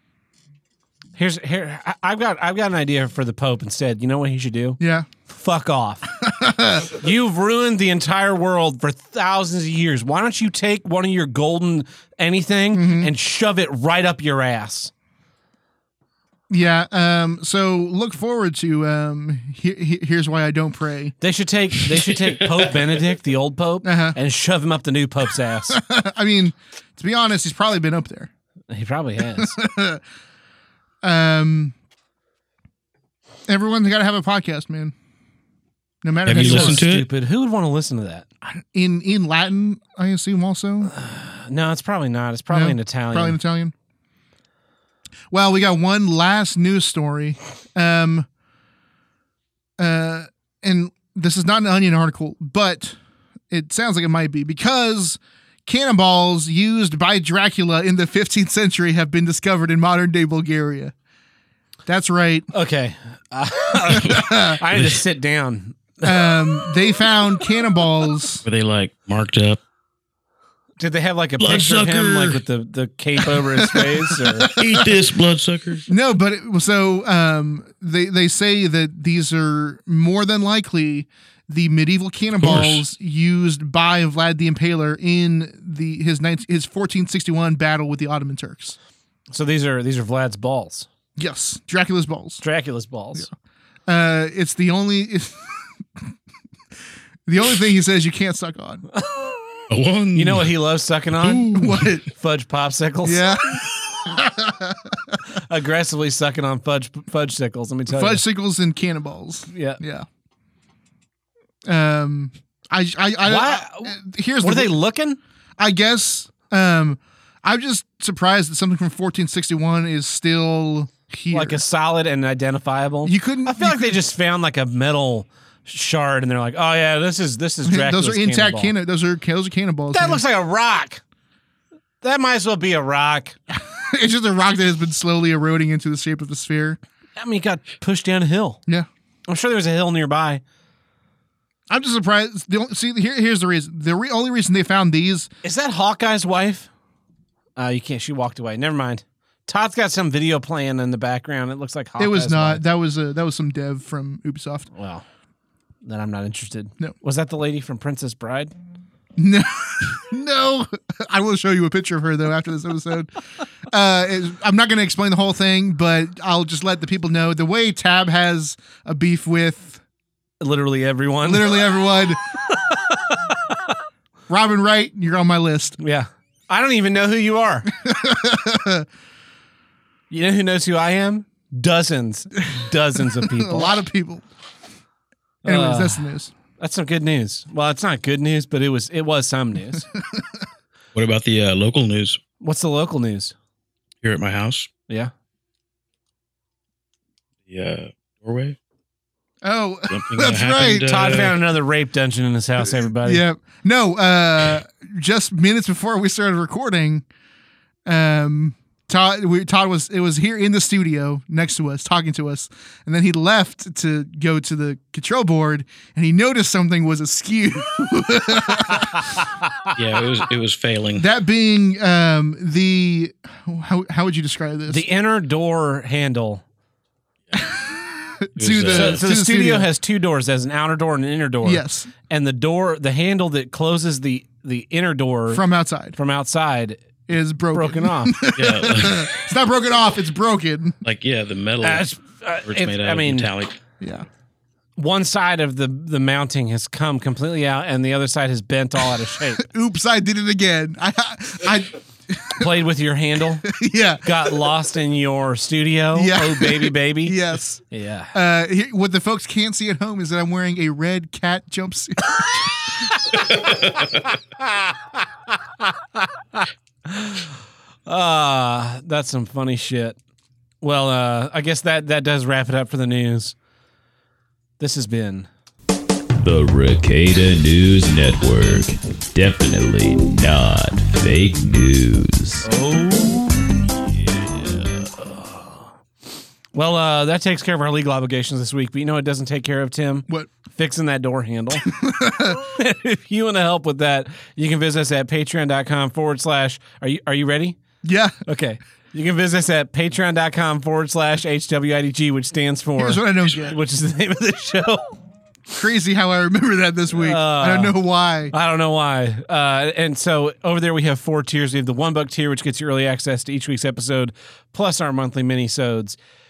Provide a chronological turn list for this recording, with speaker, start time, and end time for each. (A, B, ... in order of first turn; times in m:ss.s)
0:01.2-0:06.1 A
0:04.8-0:05.1 B
0:06.2-0:07.0 B
0:06.9-0:14.9 A
0:12.7-0:13.1 B
0:16.5-0:21.2 B
0:21.2-0:25.8 A
0:23.8-0:24.2 B
0:25.7-0:28.3 B
0:28.7-0:29.6 A
0:29.4-0:30.0 B
0:31.0-0:31.8 B
0:33.5-0:35.0 B
0:36.0-0:36.8 B
0:36.2-0:38.3 A
0:36.3-0:37.1 C
0:38.4-0:40.9 B
0:40.8-0:43.4 A
0:42.5-0:43.7 B
0:45.3-0:48.3 B
0:49.8-0:53.0 B
0:53.5-1:00.9 B
1:01.9-1:02.5 B
1:02.5-1:06.4 A
1:03.9-1:04.6 B
1:06.0-1:08.4 B
1:08.4-1:09.6 C
1:10.8-1:14.5 A
1:11.4-1:12.4 C
1:13.6-1:14.9 B
1:14.6-1:15.9 C
1:15.9-1:28.8 B
1:22.4-1:22.8 C
1:29.3-1:30.9 A
1:31.2-1:32.4 B
1:32.4-1:33.3 A
1:33.9-1:36.0 B
1:37.3-1:38.9 B
1:38.9-1:39.3 A
1:39.7-1:40.5 C
1:40.1-1:43.3 A
1:41.2-1:42.1 B
1:43.0-1:45.2 B
1:45.4-1:48.2 A
1:47.9-1:50.1 B
1:49.5-1:49.8 A
1:51.7-1:54.8 B
1:53.2-1:55.2 A
1:55.6-2:01.6 B
2:01.3-2:08.7 A
2:03.0-2:04.0 B
2:07.6-2:10.2 B
2:09.9-2:11.0 A
2:12.0-2:13.4 A
2:13.5-2:16.8 B
2:17.2-2:18.6 A
2:19.3-2:20.4 A
2:21.7-2:25.3 B
2:25.4-2:26.7 A
2:27.6-2:32.6 A
2:32.0-2:34.7 B
2:34.7-2:35.0 A
2:35.8-2:38.5 A
2:39.2-2:49.8 B
2:50.4-2:51.6 A
2:51.2-2:52.2 B
2:54.3-2:55.8 B
2:55.8-2:57.7 A
2:57.7-2:58.9 B
3:00.1-3:03.7 A
3:02.5-3:04.2 B
3:05.4-3:06.1 A
3:05.4-3:06.3 B
3:06.6-3:09.9 A
3:11.0-3:12.2 C
3:12.4-3:13.3 A
3:14.0-3:14.7 C
3:17.5-3:18.6 C
3:19.4-3:21.2 B
3:19.9-3:21.4 C
3:20.9-3:23.2 A
3:22.7-3:27.0 B
3:27.9-3:39.0 B
3:39.8-3:41.1 C
3:41.0-3:44.9 B
3:44.7-3:46.4 A
3:47.4-3:49.7 B
3:48.4-3:49.0 C
3:48.7-3:55.4 A
3:51.4-3:51.9 B
3:55.3-3:56.0 B
3:56.0-3:56.8 A
3:57.1-4:00.8 B
3:57.5-3:58.2 A
3:58.3-3:59.1 C
4:00.8-4:01.9 C
4:01.6-4:03.3 A
4:02.4-4:03.6 C
4:03.8-4:04.1 B
4:04.8-4:09.5 A
4:09.4-4:12.5 B
4:12.4-4:17.2 A
4:13.4-4:14.5 B
4:15.9-4:22.1 B
4:17.7-4:18.2 A
4:22.8-4:23.5 A
4:24.4-4:24.8 A
4:25.6-4:27.3 A
4:27.9-4:30.0 A
4:30.6-4:33.4 A
4:34.6-4:35.3 A
4:36.2-4:42.5 D
4:42.4-4:43.4 A
4:44.1-4:45.7 A
4:46.5-4:51.7 A
4:51.7-4:52.4 B
4:52.3-4:57.6 A
4:57.8-4:58.2 B
4:58.2-5:04.9 A
5:02.8-5:03.6 B
5:05.6-5:08.3 B
5:06.9-5:07.8 A
5:08.3-5:16.0 A